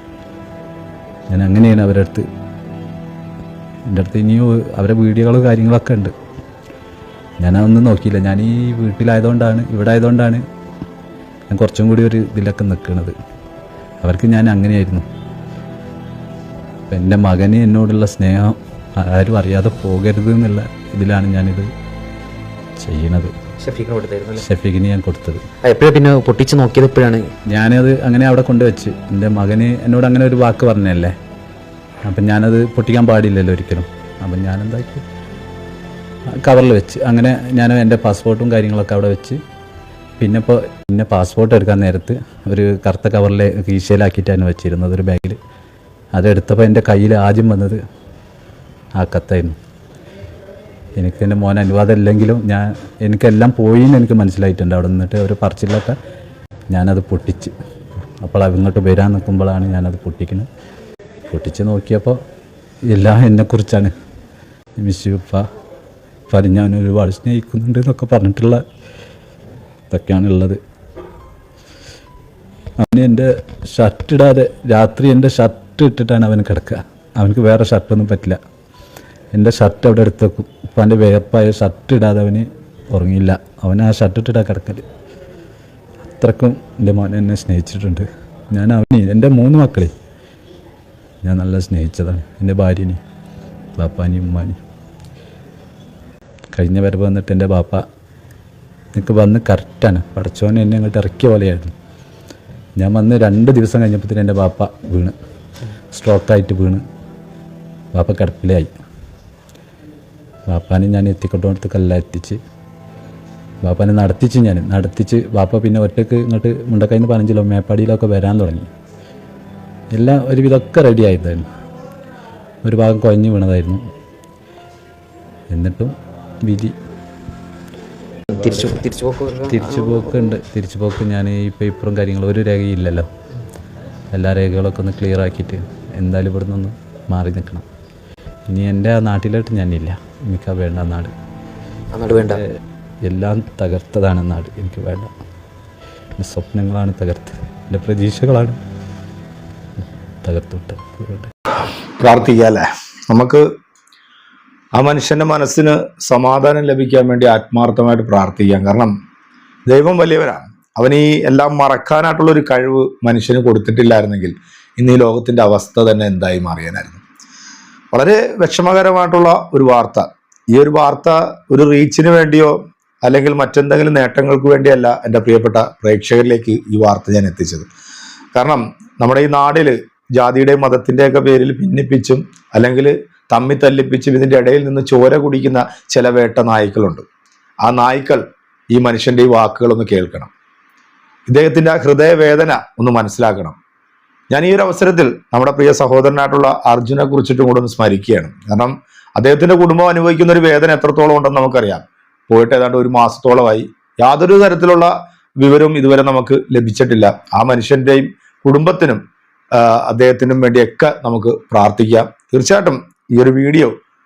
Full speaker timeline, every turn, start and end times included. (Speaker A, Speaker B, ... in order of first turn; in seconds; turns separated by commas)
Speaker A: 1.3-2.2, Speaker A: 3.9-6.1, Speaker A: 7.4-10.4, Speaker A: 11.5-13.1, Speaker A: 14.0-15.0, Speaker A: 16.9-21.7, Speaker A: 22.8-23.3, Speaker B: 23.6-24.4, Speaker A: 24.4-25.4, Speaker B: 25.6-27.3, Speaker A: 27.5-31.1, Speaker A: 32.1-35.0, Speaker A: 36.4-39.4, Speaker A: 40.2-45.4, Speaker A: 46.1-47.8, Speaker A: 49.0-49.5, Speaker A: 51.0-55.9, Speaker A: 56.7-57.5, Speaker A: 58.2-60.5, Speaker A: 61.3-62.1, Speaker A: 62.9-63.9, Speaker A: 64.8-65.4, Speaker A: 66.3-68.6, Speaker A: 69.9-70.6, Speaker A: 72.8-78.4, Speaker A: 79.3-84.8, Speaker A: 86.0-89.9, Speaker A: 91.2-93.0, Speaker A: 93.8-94.6, Speaker A: 96.5-97.8, Speaker A: 98.9-101.7, Speaker A: 102.8-105.1, Speaker A: 105.9-106.8, Speaker A: 107.9-108.7, Speaker A: 110.5-112.4, Speaker A: 113.6-118.7, Speaker A: 119.9-121.4, Speaker A: 122.6-123.8, Speaker A: 125.5-126.7, Speaker B: 128.3-130.2, Speaker A: 129.5-133.1, Speaker A: 134.1-137.6, Speaker A: 138.5-141.1, Speaker B: 141.9-142.4, Speaker A: 142.2-142.5, Speaker A: 143.0-145.1, Speaker A: 146.2-148.6, Speaker A: 150.2-151.3, Speaker C: 152.0-153.4, Speaker C: 154.7-158.9, Speaker C: 159.7-167.0, Speaker C: 167.9-177.7, Speaker C: 178.3-187.0, Speaker C: 187.6-190.3, Speaker C: 191.3-193.6, Speaker C: 194.3-209.0, Speaker C: 209.6-213.7